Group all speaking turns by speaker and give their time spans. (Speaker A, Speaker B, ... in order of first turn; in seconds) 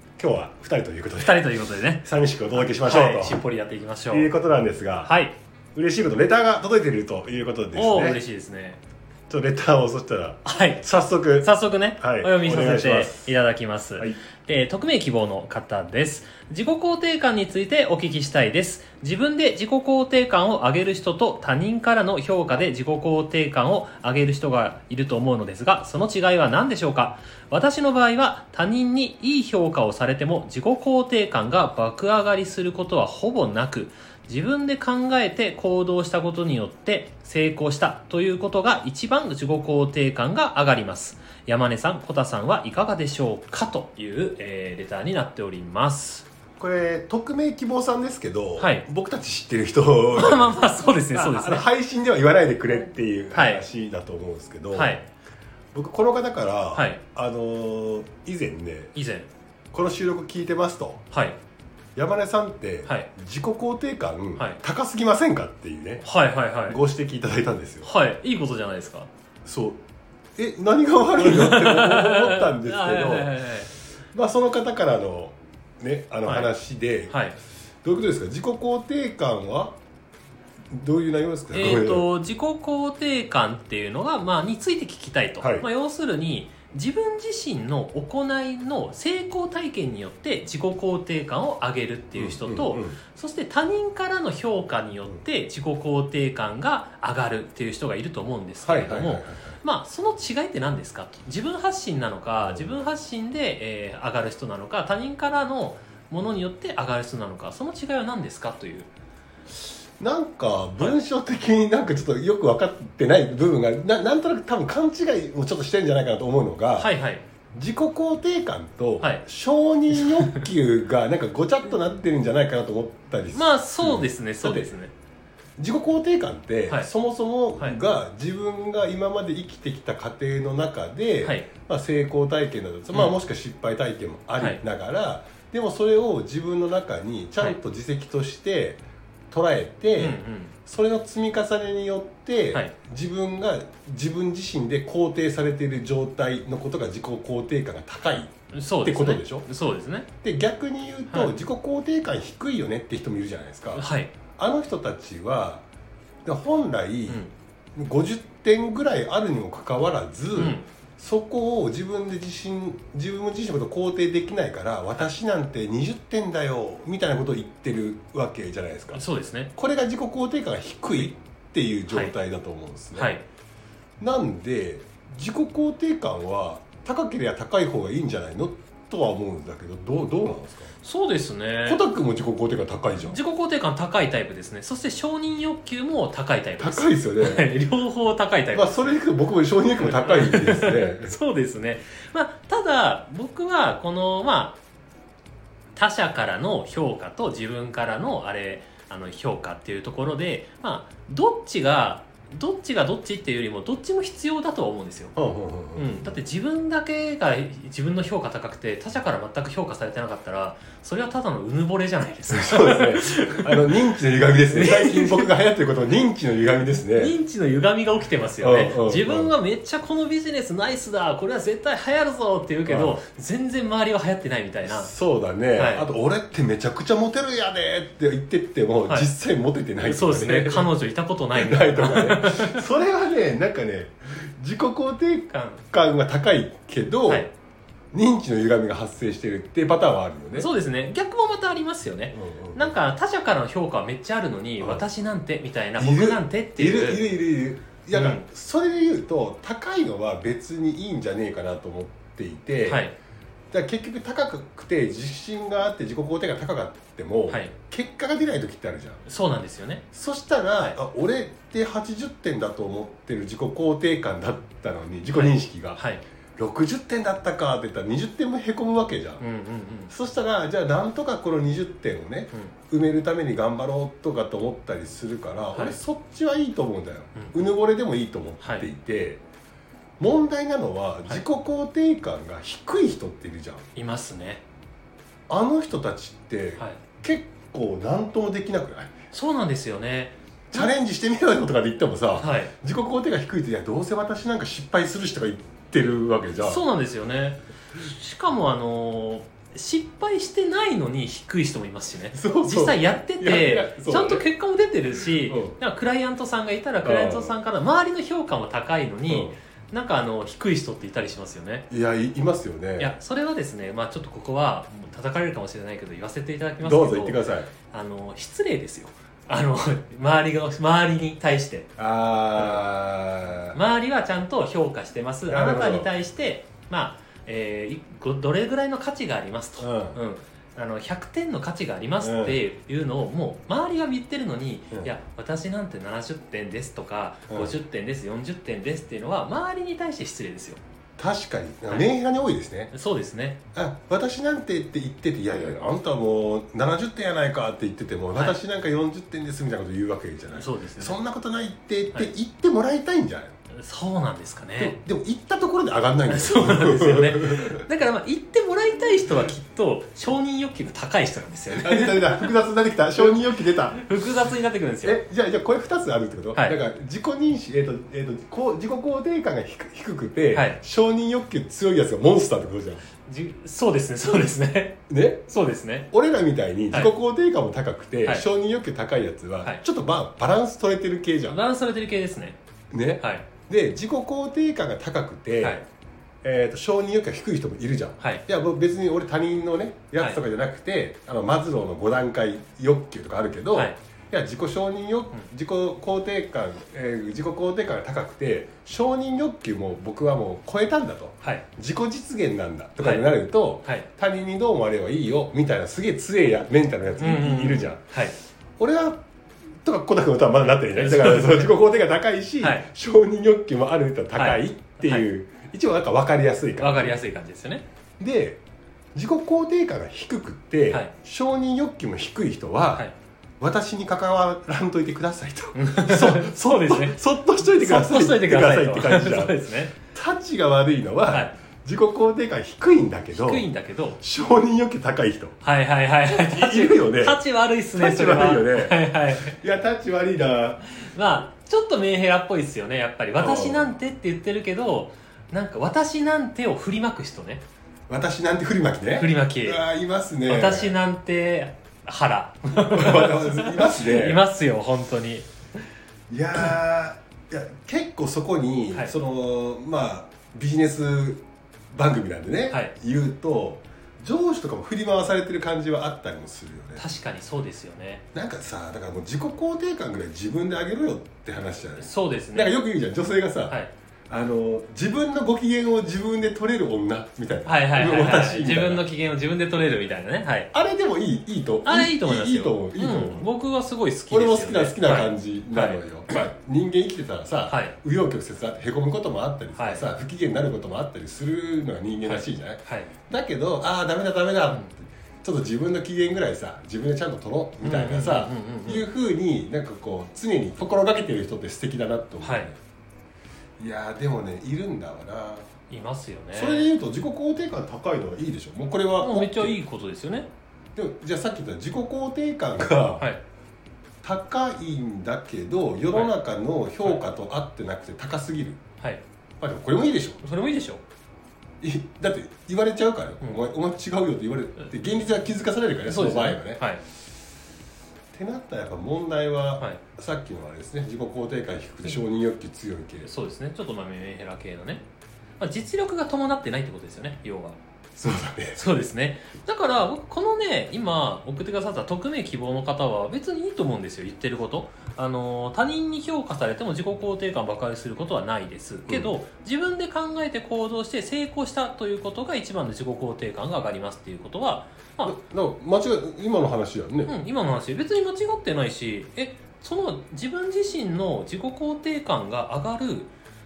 Speaker A: 0.2-1.4, 2.0-3.4, 4.1-5.1, 5.8-8.2, 9.3-13.3, 46.6-55.0, 55.7-58.9, 59.7-61.0, 62.0-66.0, 66.7-67.9, 69.5-69.8, 70.4-73.4, 74.1-77.2, 77.8-79.8, 80.7-82.1, 85.4-85.7, 92.2-93.0, 98.6-99.6, 102.5-102.8, 110.0-116.9, 117.5-124.7, 125.6-149.5, 150.2-153.8, 154.4-155.6, 156.2-169.0, 169.6-173.1, 174.0-180.7, 181.7-183.2, 186.6-187.5, 188.5-191.2, 205.2-206.2, 212.3-217.2, 218.4-219.3, 222.7-223.0, 224.6-230.7, 231.3-237.3, 237.9-240.5, 242.1-242.8, 244.6-244.8, 245.8-252.9, 253.5-259.0, 259.9-265.8, 266.4-269.2, 269.9-279.2, 280.0-283.6, 285.3-288.9, 290.5-296.6, 302.1-304.3, 305.2-305.6, 306.8-307.4, 309.1-309.3, 311.7-312.9, 316.6-317.5, 321.8-323.6, 325.3-325.9, 329.6-330.0, 332.0-332.4, 337.3-337.6, 341.0-342.7, 343.5-353.4, 354.6-357.6, 361.5-363.8, 364.8-372.9, 374.9-375.2, 375.9-381.4, 382.7-385.6, 386.2-407.8, 408.6-409.0, 409.6-417.0, 418.0-418.4, 418.9-422.9, 423.4-433.5, 434.0-435.4, 436.1-437.2, 437.7-440.6, 443.2-443.7, 447.9-450.8, 452.7-454.2, 456.1-461.2, 461.7-466.8, 468.1-473.6, 474.1-478.9, 480.5-483.3, 484.1-502.6, 503.6-505.5, 506.3-509.6, 510.8-513.1, 514.0-518.6, 519.4-520.2, 521.6-526.6, 528.1-533.1, 538.0-538.6, 548.9-549.1, 555.0-557.1
Speaker B: 1.2-4.3, 5.0-5.4, 7.7-8.8, 10.4-10.8, 11.4-46.3, 48.6-48.9, 50.1-51.7, 53.4-53.6, 54.7-55.0, 56.8-57.0, 59.0-59.3, 61.1-61.4, 66.0-66.8, 67.8-69.1, 71.2-73.7, 76.2-76.5, 77.1-77.4, 81.5-108.9, 116.8-117.2, 119.9-120.5, 123.3-124.9, 131.2-131.5, 132.9-133.2, 134.4-134.6, 140.0-140.6, 148.5-150.1, 153.8-154.1, 160.3-160.7, 168.9-169.5, 172.9-173.2, 180.8-181.8, 183.1-189.0, 189.8-194.6, 195.8-205.1, 205.8-213.8, 214.5-215.3, 216.9-224.9, 225.6-225.9, 229.8-232.7, 235.3-235.6, 240.4-247.1, 247.9-248.2, 252.7-252.9, 259.1-259.8, 265.1-266.0, 269.2-269.9, 278.4-278.7, 283.8-284.4, 289.1-290.7, 292.1-292.5, 296.4-311.6, 312.8-321.7, 322.4-322.6, 323.5-340.6, 342.7-343.4, 348.1-348.4, 350.3-351.0, 353.5-354.8, 356.1-362.4, 363.7-365.0, 370.3-370.6, 373.1-375.9, 381.3-382.4, 383.0-383.3, 402.8-403.1, 407.0-408.2, 410.8-411.5, 412.4-412.7, 414.1-415.1, 416.6-417.6, 425.6-429.8, 433.1-434.0, 435.4-439.4, 440.7-447.4, 448.9-449.6, 450.3-455.3, 466.8-468.0, 471.8-472.6, 477.5-480.5, 481.6-486.3, 487.5-487.8, 489.6-489.9, 492.1-492.9, 497.6-498.9, 502.2-502.5, 505.7-506.7, 509.0-510.3, 515.9-516.1, 520.2-520.8, 525.9-526.8, 533.0-534.8, 535.4-537.6, 538.5-555.2, 557.1-563.1